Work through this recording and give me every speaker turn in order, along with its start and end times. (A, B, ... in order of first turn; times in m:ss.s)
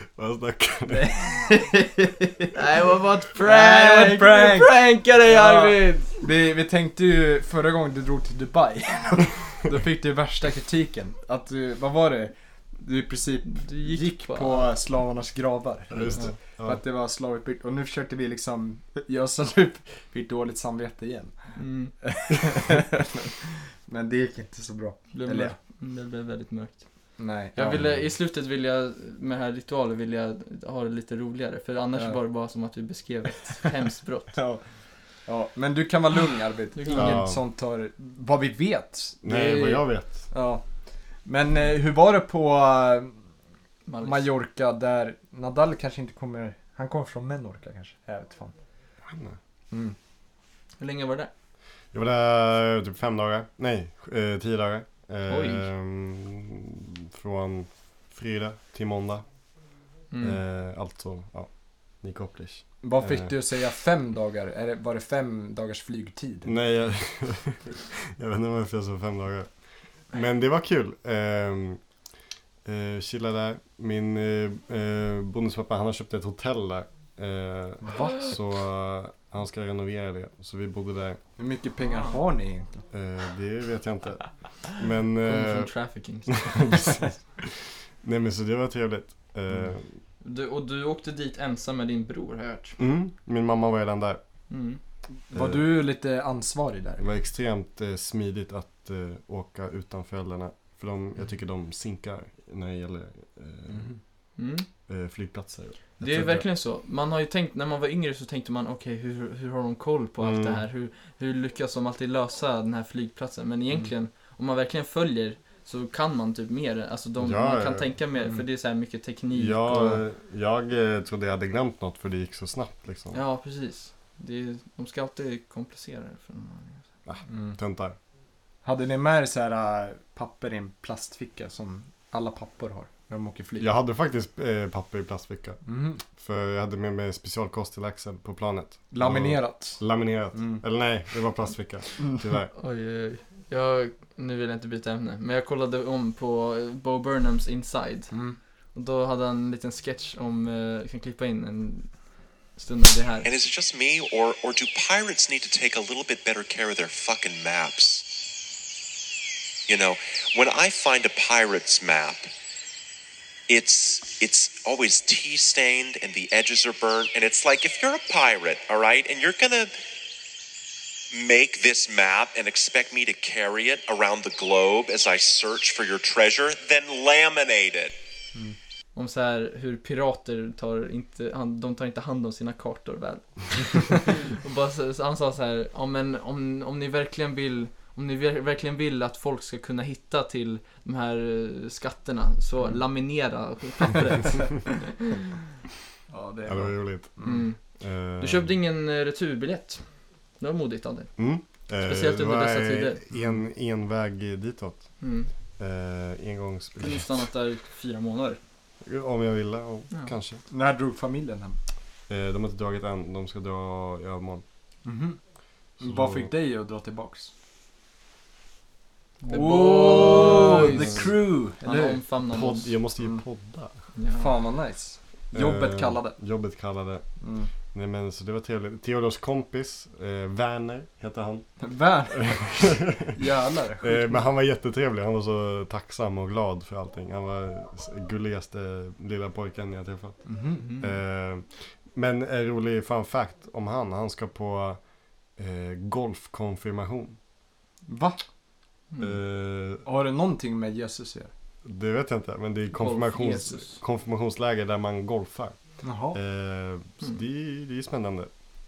0:00.2-0:01.1 A
0:00.9-0:02.6 B
0:02.5-0:06.2 C
0:03.4-0:25.6 B
0:13.5-0:14.7 C
0:15.9-0:16.8 A
0:21.6-0:21.9 C
0:25.1-0:26.9 C
0:27.2-0:27.8 B
0:27.5-0:34.4 C
0:27.7-0:28.0 A
0:34.3-0:34.6 B
0:35.2-0:40.6 B
0:36.8-0:37.3 C
0:36.9-0:37.4 A
0:39.2-0:40.3 A
0:41.2-0:43.2 B
0:43.8-0:44.3 C
0:44.0-0:48.5 B
0:49.0-0:49.4 A
0:49.7-0:50.0 B
0:50.8-0:51.3 C
0:51.9-0:59.2 A
0:55.3-0:55.6 C
1:00.1-1:00.4 C
1:00.2-1:03.4 A
1:02.8-1:06.5 B
1:06.4-1:09.5 A
1:10.1-1:11.8 A
1:12.6-1:21.2 A
1:17.8-1:18.3 B
1:21.4-1:22.8 B
1:21.8-1:22.2 C
1:22.9-1:25.7 A
1:25.2-1:26.9 C
1:26.3-1:27.1 A
1:28.0-1:29.9 A
1:30.2-1:32.8 C
1:32.8-1:34.2 A
1:34.5-1:34.8 C
1:35.3-1:37.0 B
1:35.3-1:35.7 A
1:37.0-1:43.9 A
1:43.7-1:44.0 B
1:44.4-1:44.7 C
1:44.9-1:46.4 A
1:46.0-2:00.0 C
1:50.2-1:50.6 A
1:57.2-1:57.9 A
1:59.3-2:03.2 A
2:03.1-2:06.8 C
2:07.0-2:08.0 A
2:07.3-2:07.6 B
2:08.6-2:13.7 B
2:13.6-2:15.6 A
2:15.6-2:16.0 B
2:16.1-2:22.5 A
2:18.9-2:20.6 B
2:22.5-2:28.2 C
2:28.1-2:28.4 B
2:28.7-2:33.3 C
2:33.2-2:38.0 D
2:39.7-2:42.3 D
2:43.5-2:49.8 D
2:51.1-2:57.9 D
2:58.9-3:15.3 C
3:16.1-3:17.4 B
3:16.5-3:17.2 A
3:17.2-3:17.6 C
3:17.8-3:18.5 A
3:18.2-3:19.8 C
3:20.4-3:21.2 C
3:21.2-3:25.0 A
3:21.8-3:23.0 C
3:25.0-3:25.3 C
3:25.6-3:27.2 A
3:26.8-3:28.4 C
3:28.8-3:30.4 A
3:30.5-3:31.6 B
3:32.1-3:34.4 A
3:34.8-3:35.2 B
3:35.8-3:36.3 A
3:35.8-3:37.3 B
3:39.2-3:42.7 C
3:39.3-3:42.0 B
3:42.3-3:43.8 A
3:44.0-3:44.3 C
3:44.2-3:46.2 B
3:45.3-3:47.0 A
3:47.2-3:47.5 B
3:47.7-3:51.6 A
3:51.6-3:54.2 B
3:52.1-3:53.1 A
3:53.8-4:07.2 A
4:00.2-4:00.7 B
4:00.6-4:00.9 C
4:07.8-4:08.2 B
4:09.0-4:09.8 A
4:09.8-4:11.3 B
4:11.6-4:18.3 A
4:12.7-4:13.8 C
4:15.8-4:16.2 B